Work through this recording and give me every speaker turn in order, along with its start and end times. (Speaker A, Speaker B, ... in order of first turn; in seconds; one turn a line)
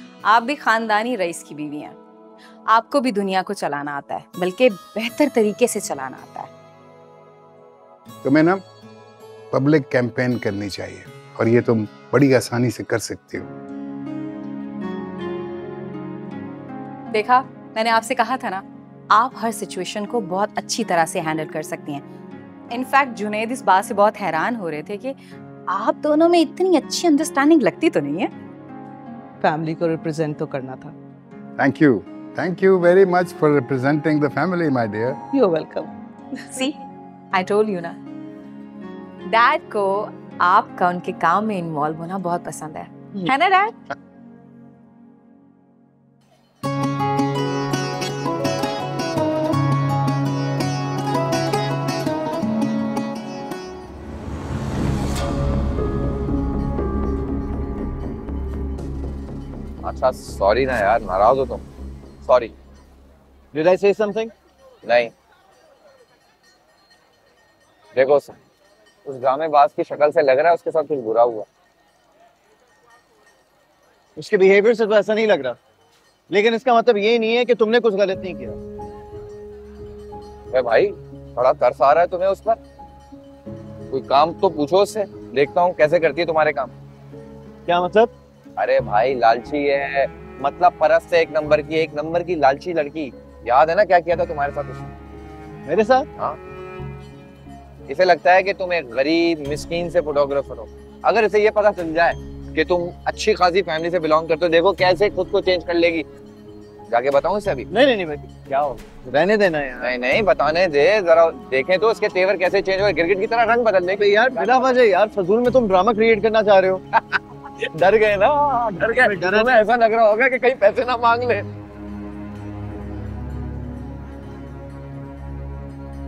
Speaker A: 0.3-2.0
Speaker A: 2.7-6.5
Speaker B: 8.2-8.6
Speaker B: 9.5-13.5
Speaker A: 17.1-22.0
Speaker A: 22.7-25.1
Speaker A: 25.7-28.3
Speaker C: 29.4-30.9
Speaker B: 31.6-35.2
Speaker C: 35.3-35.9
Speaker A: 36.5-36.8
Speaker A: 37.3-38.0
Speaker A: 39.3-43.8
Speaker D: 59.8-61.6
Speaker D: 62.2-62.5
Speaker E: 63.5-64.3
Speaker D: 64.8-65.1
Speaker D: 68.0-68.4
Speaker D: 69.1-71.5
Speaker E: 74.2-75.6
Speaker E: 76.3-78.6
Speaker D: 80.5-82.6
Speaker D: 83.9-86.7
Speaker E: 87.7-88.1
Speaker D: 88.6-94.9
Speaker E: 95.7-96.1
Speaker D: 97.9-106.0
Speaker D: 106.9-107.7
Speaker E: 107.7-109.9
Speaker D: 109.8-114.8
Speaker E: 114.0-116.8
Speaker D: 117.7-121.5
Speaker E: 119.0-119.5